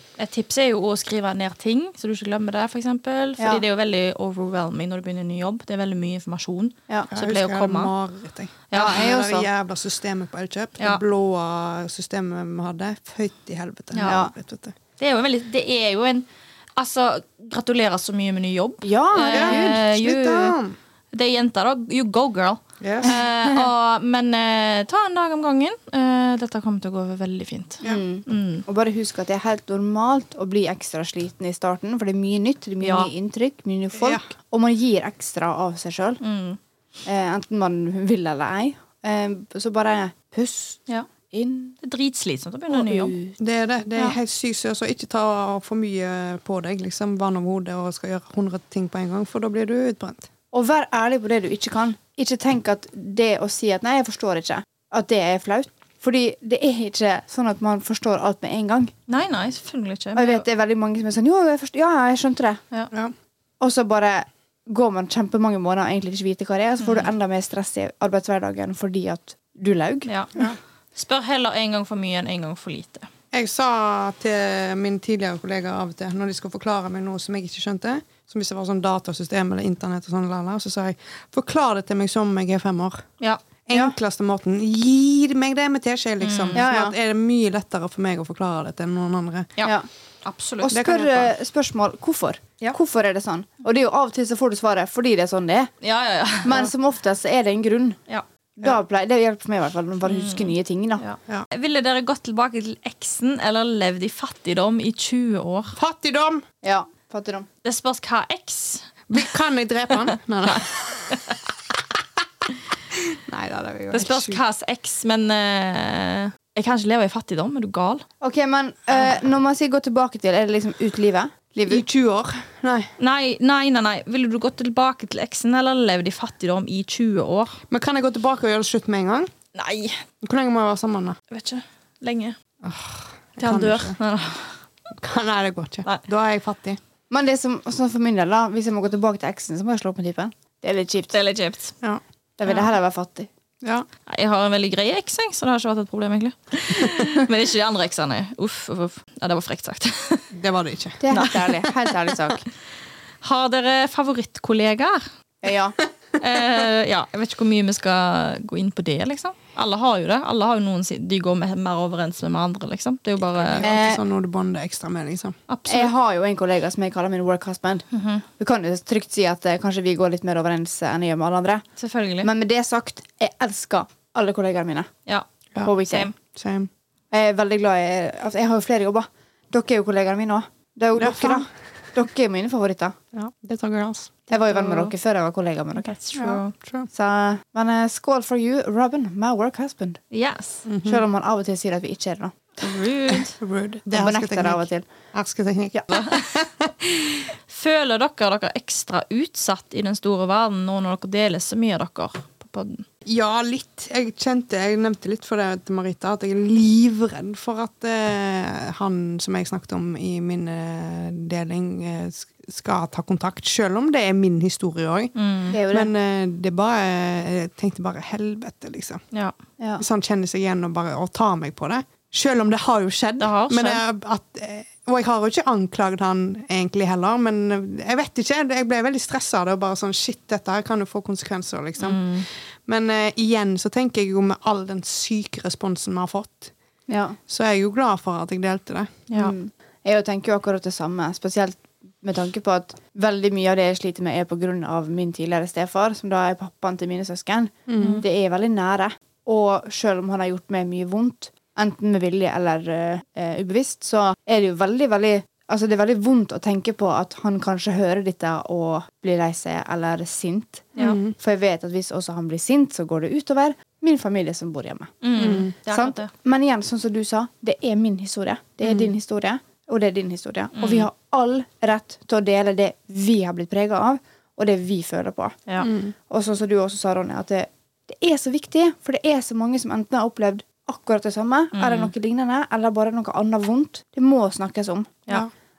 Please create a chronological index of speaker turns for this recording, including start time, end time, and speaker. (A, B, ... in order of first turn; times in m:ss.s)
0:00.2-0:07.9 A
0:03.4-0:03.6 B
0:07.1-0:14.7 C
0:08.7-0:09.0 A
0:08.7-0:09.5 B
0:13.9-0:14.2 A
0:14.0-0:14.3 B
0:15.0-0:20.6 A
0:18.8-0:19.8 B
0:19.3-0:20.8 C
0:21.1-0:28.6 A
0:22.8-0:23.1 C
0:23.0-0:23.7 B
0:27.8-0:36.2 B
0:32.8-0:33.1 A
0:34.0-0:34.2 C
0:36.2-0:36.6 A
0:37.0-0:41.8 B
0:41.8-0:43.1 A
0:42.7-0:43.4 B
0:43.4-0:50.3 C
0:50.5-0:58.9 B
0:59.1-1:00.4 A
1:00.1-1:02.6 B
1:03.6-1:10.5 B
1:06.8-1:07.1 A
1:10.1-1:10.3 A
1:10.9-1:13.1 A
1:13.3-1:23.0 C
1:23.6-1:29.5 C
1:26.2-1:26.6 A
1:26.5-1:26.9 B
1:29.6-1:30.8 A
1:30.6-1:35.7 B
1:30.7-1:31.3 C
1:35.8-1:36.6 A
1:36.4-1:38.0 B
1:38.6-1:41.0 B
1:40.0-1:45.8 A
1:45.8-1:46.4 C
1:46.6-1:47.5 B
1:47.6-1:48.8 A
1:49.1-1:51.1 C
1:50.5-1:51.3 A
1:53.3-1:54.4 C
1:53.9-1:58.0 A
1:58.2-2:01.8 B
2:01.7-2:02.9 C
2:03.0-2:07.6 A
2:07.7-2:09.3 C
2:09.5-2:10.0 A
2:10.2-2:11.2 C
2:11.3-2:12.4 A
2:12.6-2:14.0 C
2:13.4-2:14.6 A
2:15.0-2:16.8 C
2:17.1-2:21.2 B
2:21.1-2:21.8 A
2:22.4-2:23.3 B
2:24.1-2:30.3 A
2:30.3-2:31.1 C
2:31.0-2:32.4 B
2:31.1-2:31.7 A
2:33.2-2:35.0 A
2:35.4-2:35.8 B
2:36.2-2:43.7 A
2:43.4-2:45.4 C
2:43.6-2:44.0 B
2:45.5-2:45.9 A
2:45.7-2:47.8 B
2:47.9-2:48.2 A
2:48.4-2:51.6 B
2:51.8-2:52.3 A
2:52.2-2:54.9 B
2:55.1-2:56.1 A
2:55.6-2:56.1 B
2:56.3-2:56.7 C
2:57.1-3:03.0 B
3:01.0-3:01.5 C
3:03.1-3:04.1 C
3:04.3-3:06.4 B
3:04.3-3:04.9 A
3:05.8-3:06.5 A
3:06.2-3:06.9 C
3:06.9-3:10.0 B
3:10.1-3:10.6 A
3:10.6-3:11.0 C
3:10.8-3:12.4 B
3:12.6-3:13.4 A
3:13.1-3:17.3 C
3:13.9-3:14.9 B
3:15.9-3:16.3 A
3:17.5-3:22.8 A
3:23.0-3:35.1 C
3:35.2-3:35.6 A
3:35.5-3:35.9 B
3:35.7-3:39.0 C
3:39.8-3:56.5 C
3:43.2-3:43.8 A
3:51.8-3:52.2 A
3:56.9-3:57.2 B
3:57.3-3:59.0 C
3:59.1-3:59.3 A
3:59.1-4:24.9 B
4:07.7-4:08.0 C
4:07.8-4:08.0 A
4:20.8-4:21.1 C
4:25.0-4:26.1 A
4:25.2-4:25.5 C
4:25.6-4:35.4 B
4:28.6-4:28.9 C
4:30.5-4:30.9 A
4:35.6-4:35.9 C
4:36.1-4:45.1 B
4:41.5-4:41.9 A